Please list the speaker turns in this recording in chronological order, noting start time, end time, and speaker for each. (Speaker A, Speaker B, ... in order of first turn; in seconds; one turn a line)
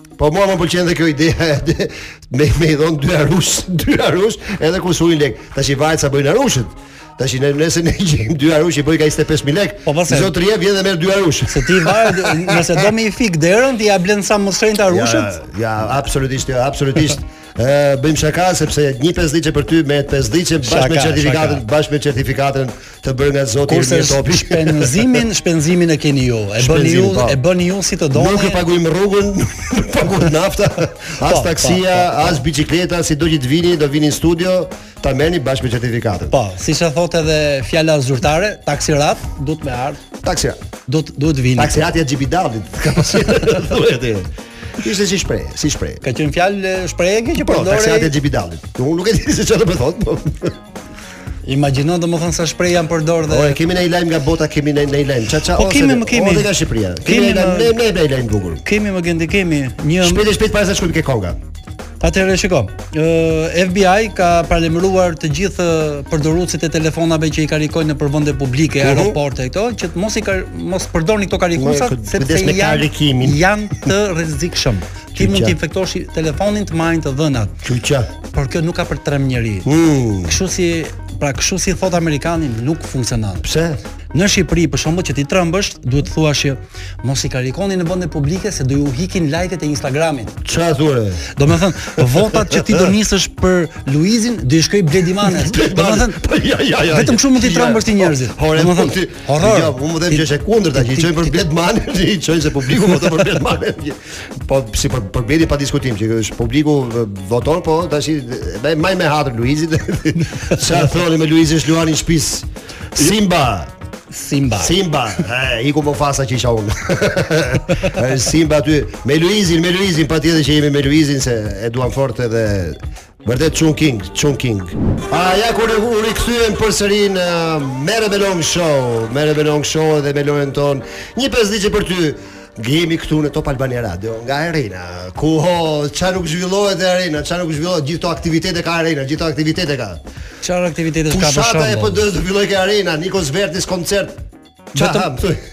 Speaker A: 0.2-12.9
Speaker B: 9.9-10.3
Speaker B: 11.5-15.3
Speaker A: 14.8-25.2
Speaker B: 20.6-21.6
Speaker B: 23.7-28.6
Speaker A: 26.6-27.4
Speaker A: 28.1-36.3
Speaker B: 31.2-32.4
Speaker B: 36.3-40.0
Speaker A: 40.2-40.6
Speaker B: 40.9-41.9
Speaker A: 41.6-46.0
Speaker B: 46.0-48.1
Speaker A: 47.4-50.6
Speaker B: 51.5-53.6
Speaker A: 53.3-58.6
Speaker B: 55.5-56.5
Speaker B: 57.0-57.8
Speaker B: 58.6-60.3
Speaker A: 60.0-61.4
Speaker B: 62.0-77.6
Speaker A: 68.8-69.2
Speaker A: 71.5-73.9
Speaker A: 75.2-75.6
Speaker A: 77.6-78.1
Speaker B: 78.3-79.7
Speaker A: 79.7-80.3
Speaker B: 80.2-83.5
Speaker A: 83.4-83.8
Speaker B: 84.1-90.4
Speaker A: 90.4-91.3
Speaker B: 91.3-96.2
Speaker A: 92.0-92.8
Speaker A: 95.2-113.7
Speaker B: 96.9-101.4
Speaker B: 110.2-110.6
Speaker B: 114.1-114.8
Speaker A: 114.6-140.0
Speaker B: 140.4-142.0
Speaker A: 141.1-144.2
Speaker B: 144.8-145.1
Speaker A: 144.8-145.4